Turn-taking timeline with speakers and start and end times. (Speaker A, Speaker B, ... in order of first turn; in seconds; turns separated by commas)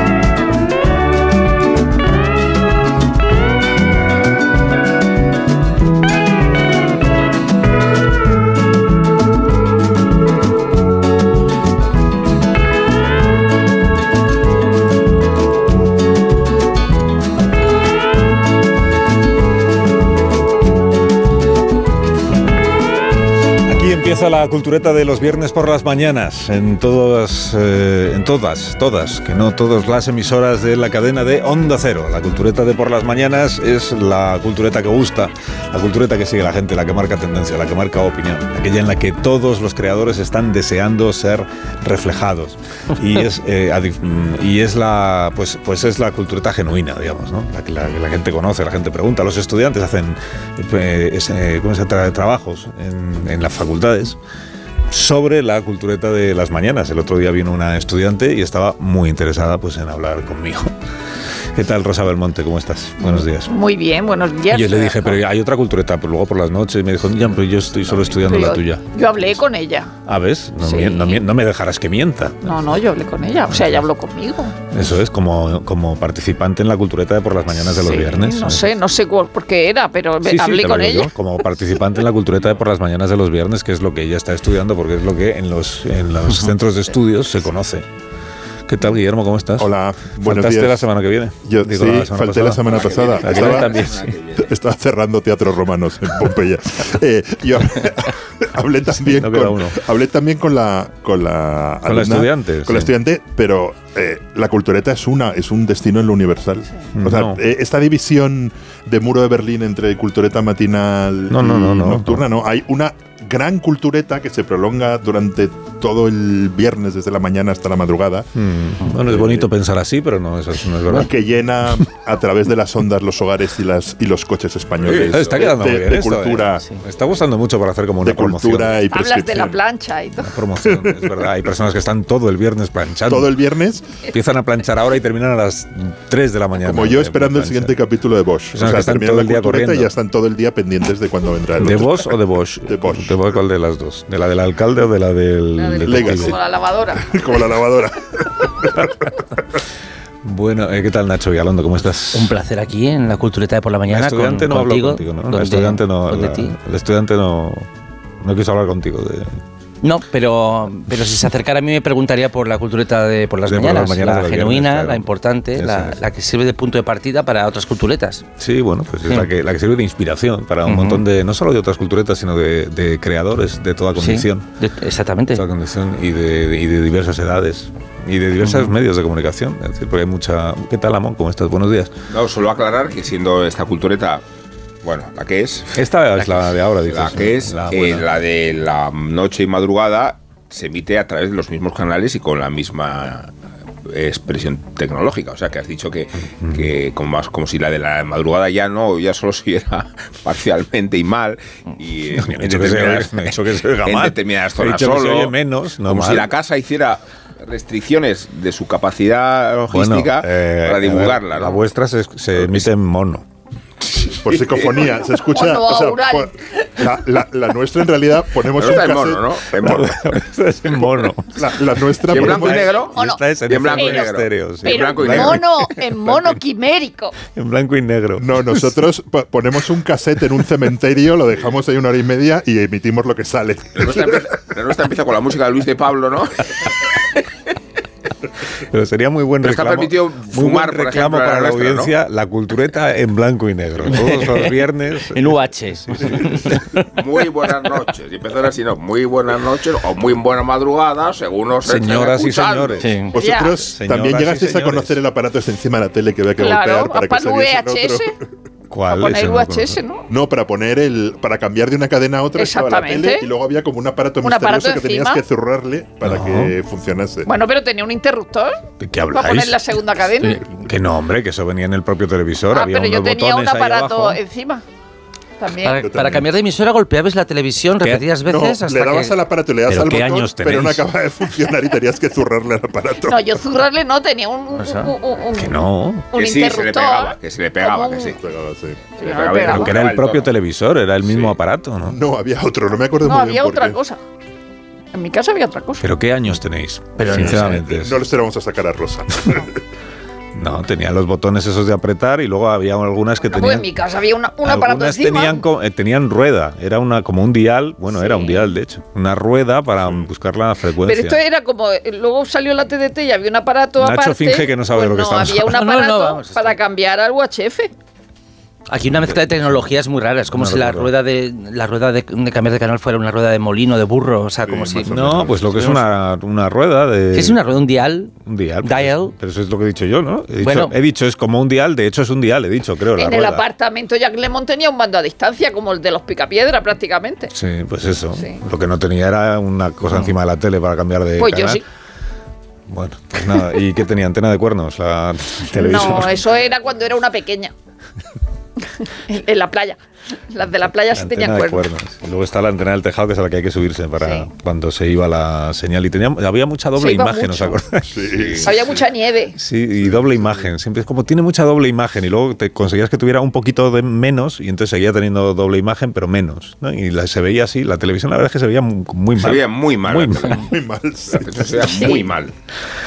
Speaker A: 23.6-54.2, Speaker A: 54.9-60.7, Speaker A: 61.5-63.5, Speaker B: 63.0-65.2, Speaker A: 64.5-68.8, Speaker B: 68.2-69.9, Speaker A: 70.1-72.5, Speaker B: 70.6-71.2, Speaker B: 72.4-74.6, Speaker A: 74.7-78.8, Speaker B: 77.8-81.1, Speaker A: 80.2-87.9, Speaker A: 88.7-94.1, Speaker C: 89.6-90.8, Speaker C: 91.4-93.7, Speaker D: 92.7-94.5, Speaker C: 94.5-118.3, Speaker A: 99.0-99.8, Speaker A: 101.8-102.9, Speaker A: 106.9-107.4, Speaker A: 111.3-112.2, Speaker A: 118.3-121.1, Speaker C: 119.0-119.4, Speaker C: 120.9-126.6, Speaker D: 124.8-125.5, Speaker A: 125.0-128.8, Speaker C: 128.0-129.6, Speaker B: 128.9-130.4, Speaker A: 130.2-133.3, Speaker C: 130.8-131.1, Speaker C: 133.1-133.8, Speaker A: 134.1-137.8, Speaker C: 136.6-143.2, Speaker A: 138.5-139.9, Speaker A: 141.6-146.4, Speaker B: 145.5-147.2, Speaker C: 145.8-146.4, Speaker C: 146.9-148.9, Speaker A: 150.2-152.3, Speaker E: 152.1-156.6, Speaker A: 153.9-157.7, Speaker A: 158.2-159.4, Speaker E: 159.8-168.2, Speaker A: 163.4-166.0, Speaker A: 168.4-174.5, Speaker E: 170.6-171.0, Speaker E: 174.0-175.4, Speaker A: 175.3-181.9, Speaker E: 178.4-178.7, Speaker D: 182.1-184.2, Speaker D: 184.8-193.3, Speaker A: 185.7-188.0, Speaker D: 193.9-211.6, Speaker A: 196.4-196.7, Speaker A: 202.1-206.3, Speaker A: 209.7-213.2, Speaker D: 212.3-212.7, Speaker C: 214.2-219.4, Speaker D: 214.3-214.9, Speaker B: 215.1-216.3, Speaker D: 218.5-220.2, Speaker A: 219.6-225.5, Speaker C: 221.3-222.8, Speaker D: 222.1-225.4, Speaker B: 222.7-224.1, Speaker B: 224.6-227.1, Speaker A: 227.3-228.8, Speaker C: 228.2-234.3, Speaker D: 233.7-236.5, Speaker A: 238.7-245.3, Speaker D: 239.4-241.9, Speaker E: 243.9-244.5, Speaker E: 245.1-246.6, Speaker A: 245.9-246.6, Speaker D: 246.8-252.9, Speaker A: 251.6-255.0, Speaker E: 252.8-253.1, Speaker C: 253.1-258.1, Speaker B: 253.2-253.6, Speaker B: 256.4-258.1, Speaker A: 258.7-259.8, Speaker B: 258.9-260.1, Speaker C: 260.1-267.3, Speaker B: 262.3-263.3, Speaker B: 264.2-265.2, Speaker A: 266.0-266.5, Speaker B: 267.3-268.6, Speaker A: 268.8-269.7, Speaker B: 269.1-270.4, Speaker A: 270.6-274.2, Speaker B: 272.5-274.6, Speaker B: 275.4-275.8, Speaker E: 275.6-279.1, Speaker C: 275.8-276.2, Speaker A: 277.8-278.1, Speaker C: 278.2-283.4, Speaker A: 279.7-280.9, Speaker B: 283.1-285.6, Speaker E: 284.6-284.9, Speaker A: 285.3-286.1, Speaker B: 286.1-288.1, Speaker D: 286.1-288.2, Speaker C: 288.1-288.9, Speaker B: 289.0-289.8, Speaker D: 289.0-290.3, Speaker A: 289.4-292.0, Speaker C: 291.8-293.8, Speaker B: 293.0-294.0, Speaker B: 294.9-295.8, Speaker A: 295.8-298.0, Speaker E: 297.0-297.6, Speaker C: 297.0-299.5, Speaker A: 300.3-303.7, Speaker B: 303.3-305.4, Speaker A: 304.4-311.2, Speaker B: 307.9-308.5, Speaker B: 310.8-317.7, Speaker A: 313.8-315.6, Speaker E: 315.5-316.6, Speaker E: 318.7-325.9, Speaker A: 318.9-319.7, Speaker A: 320.3-320.9, Speaker C: 324.4-325.5, Speaker A: 324.8-327.4, Speaker E: 327.1-329.1, Speaker A: 328.2-333.4, Speaker E: 330.4-330.7, Speaker B: 332.9-337.3, Speaker A: 337.3-341.6, Speaker B: 338.1-338.4, Speaker B: 341.2-341.6, Speaker A: 342.7-346.3, Speaker B: 345.5-347.5, Speaker B: 349.1-349.8, Speaker B: 350.3-351.7, Speaker A: 350.9-358.1, Speaker B: 354.0-354.3, Speaker B: 356.8-357.6, Speaker C: 357.9-358.8, Speaker D: 358.1-358.5, Speaker B: 358.4-359.4, Speaker A: 359.4-370.5, Speaker D: 369.1-370.5, Speaker C: 370.4-371.9, Speaker D: 371.1-372.3